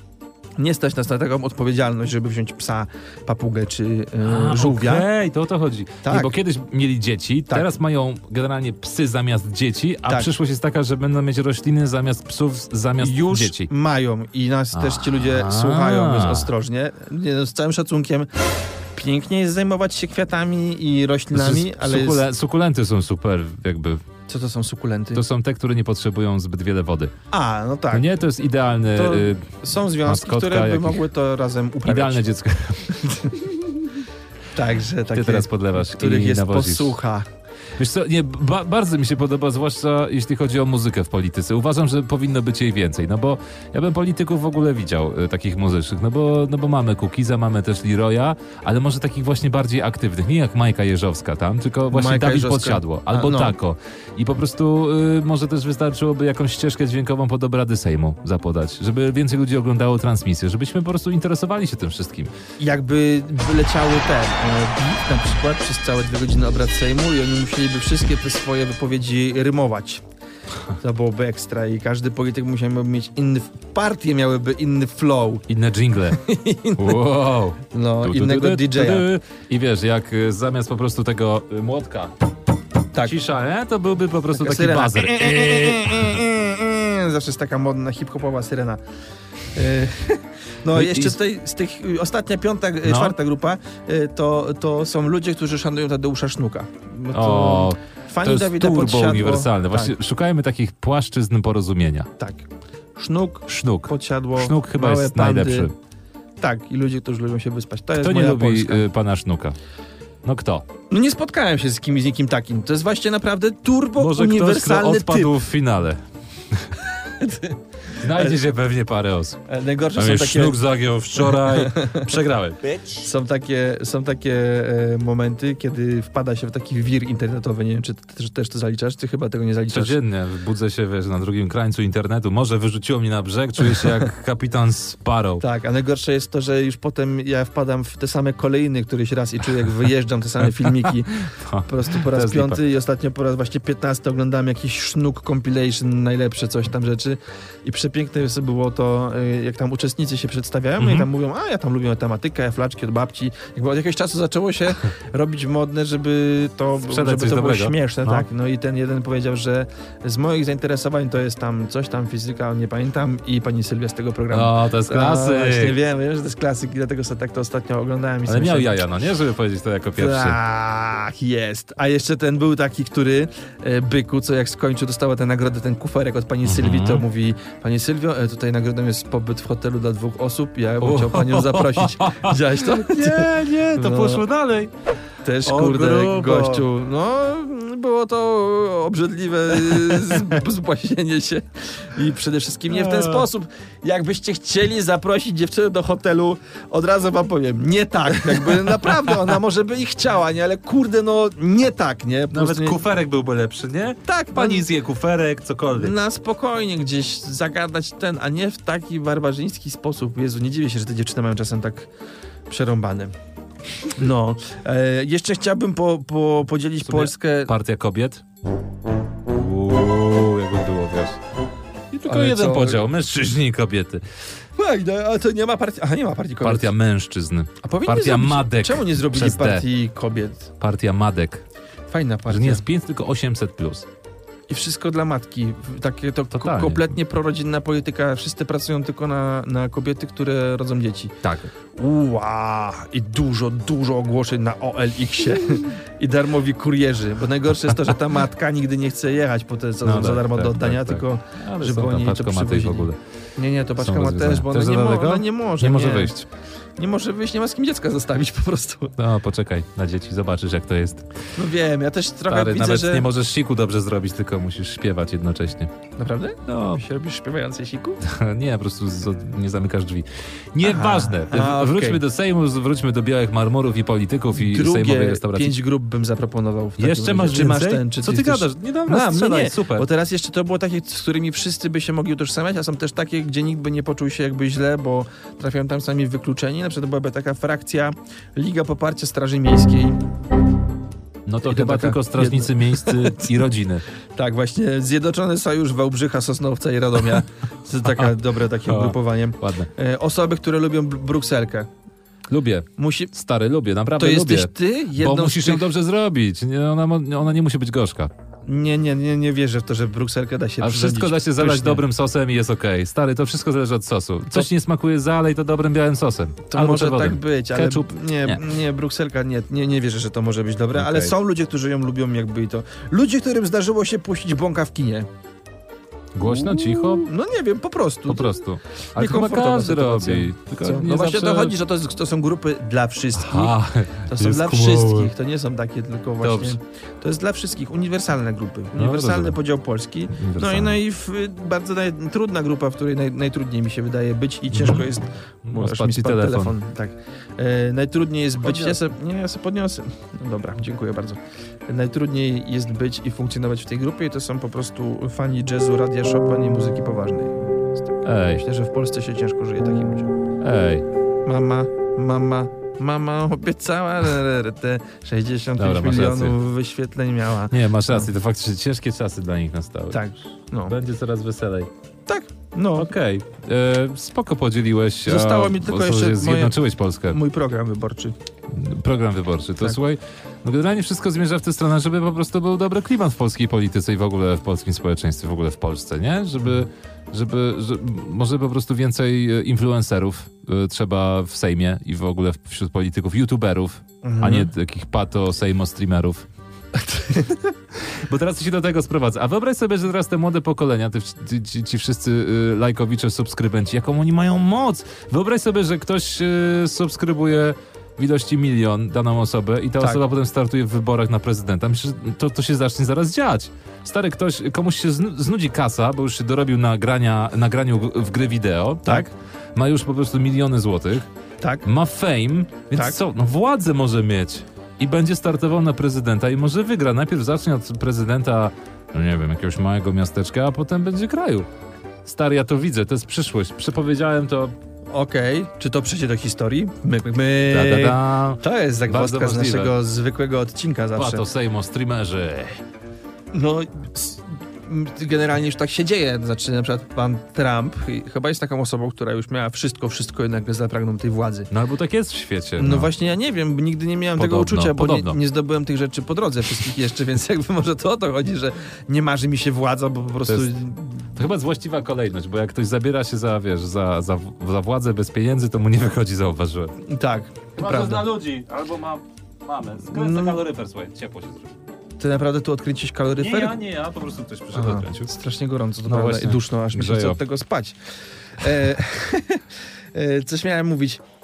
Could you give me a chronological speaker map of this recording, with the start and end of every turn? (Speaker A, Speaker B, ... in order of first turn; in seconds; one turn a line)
Speaker A: 0.6-5.1
Speaker B: 4.2-13.7
Speaker A: 6.0-6.3
Speaker A: 10.1-10.3
Speaker A: 13.0-22.2
Speaker B: 14.7-16.5
Speaker B: 21.3-24.0
Speaker A: 24.3-25.2
Speaker B: 25.1-27.1
Speaker A: 27.3-28.1
Speaker B: 27.9-29.5
Speaker A: 28.9-32.2
Speaker B: 30.0-31.0
Speaker B: 31.8-33.0
Speaker A: 32.9-34.0
Speaker A: 34.5-37.2
Speaker B: 35.1-36.9
Speaker B: 37.8-62.3
Speaker A: 51.9-53.5
Speaker A: 62.6-70.0
Speaker A: 70.8-75.5
Speaker B: 75.5-76.2
Speaker A: 76.1-77.0
Speaker B: 76.7-82.1
Speaker A: 77.7-79.1
Speaker B: 83.0-86.2
Speaker A: 84.3-88.8
Speaker A: 89.5-100.0
Speaker B: 90.7-91.2
Speaker B: 92.8-93.1
Speaker B: 97.1-102.1
Speaker A: 102.2-105.7
Speaker B: 103.5-105.7
Speaker A: 106.4-108.8
Speaker B: 108.0-109.6
Speaker B: 110.2-110.6
Speaker A: 110.9-115.4
Speaker B: 114.0-116.8
Speaker A: 116.9-118.4
Speaker B: 117.9-119.4
Speaker A: 119.5-120.6
Speaker B: 119.9-122.8
Speaker A: 121.2-122.1
Speaker A: 122.8-130.0
Speaker B: 129.7-135.4
Speaker A: 135.4-168.8
Speaker B: 140.6-142.6
Speaker B: 150.8-151.1
Speaker B: 156.8-158.2
Speaker B: 164.3-165.8
Speaker B: 168.3-170.4
Speaker A: 169.9-184.2
Speaker B: 176.4-177.0
Speaker B: 180.8-184.7
Speaker A: 185.2-202.8
Speaker B: 185.4-186.7
Speaker B: 189.7-190.2
Speaker B: 192.7-193.2
Speaker B: 198.5-199.1
Speaker B: 202.3-205.9
Speaker A: 204.0-204.7
Speaker A: 205.7-211.9
Speaker A: 212.5-213.1
Speaker A: 213.8-217.5
Speaker B: 216.8-218.2
Speaker B: 219.3-221.2
Speaker B: 221.9-224.0
Speaker A: 222.1-222.9
Speaker A: 224.6-226.7
Speaker B: 226.4-229.7
Speaker A: 227.6-230.5
Speaker B: 230.6-231.4
Speaker A: 231.9-232.6
Speaker B: 232.3-233.8
Speaker A: 234.5-241.2
Speaker B: 236.3-236.9
Speaker B: 241.2-241.5
Speaker A: 241.7-256.1
Speaker B: 249.8-253.0
Speaker B: 253.8-256.2
Speaker A: 256.8-258.9
Speaker B: 259.0-261.1
Speaker A: 261.4-263.1
Speaker B: 262.3-265.7
Speaker A: 266.0-268.0
Speaker B: 266.5-266.8
Speaker B: 268.0-275.6
Speaker A: 270.6-272.0
Speaker A: 274.3-290.0
Speaker B: 276.8-279.9
Speaker B: 291.2-293.8
Speaker A: 291.4-293.3
Speaker A: 294.1-301.7
Speaker B: 297.9-298.1
Speaker B: 298.6-299.7
Speaker B: 302.3-308.1
Speaker A: 302.8-303.1
Speaker A: 304.0-305.7
Speaker A: 308.4-311.8
Speaker B: 310.6-318.4
Speaker A: 316.5-325.1
Speaker B: 320.7-321.1
Speaker B: 326.1-327.1
Speaker A: 326.2-328.3
Speaker B: 328.1-331.6
Speaker A: 328.9-360.1
Speaker B: 333.1-335.1
Speaker B: 336.2-336.6
Speaker B: 338.8-339.4
Speaker B: 340.1-340.8
Speaker B: 344.5-344.9
Speaker B: 345.4-346.5
Speaker B: 348.4-348.8
Speaker B: 358.0-358.4
Speaker B: 360.4-360.9
Speaker A: 361.2-368.1
Speaker B: 365.6-366.4
Speaker B: 367.5-370.0
Speaker A: 369.9-370.8
Speaker B: 370.6-371.7
Speaker A: 372.1-372.9
Speaker B: 372.8-377.2
Speaker A: 375.0-378.1
Speaker B: 378.5-396.2
Speaker A: 394.0-394.5
Speaker A: 396.7-397.5
Speaker B: 397.7-421.1
Speaker A: 421.4-421.6
Speaker B: 421.6-431.5
Speaker A: 422.7-423.0
Speaker B: 432.0-434.5
Speaker A: 434.9-441.2
Speaker B: 437.5-439.7
Speaker B: 440.9-442.6
Speaker A: 443.3-451.5
Speaker B: 451.5-452.9
Speaker A: 452.6-461.2
Speaker B: 454.2-455.2
Speaker B: 461.1-466.8
Speaker A: 466.8-468.1
Speaker B: 467.6-471.5
Speaker A: 469.9-470.4
Speaker A: 472.0-473.6
Speaker B: 473.2-475.1
Speaker A: 474.5-477.8
Speaker B: 475.9-477.2
Speaker A: 478.4-481.0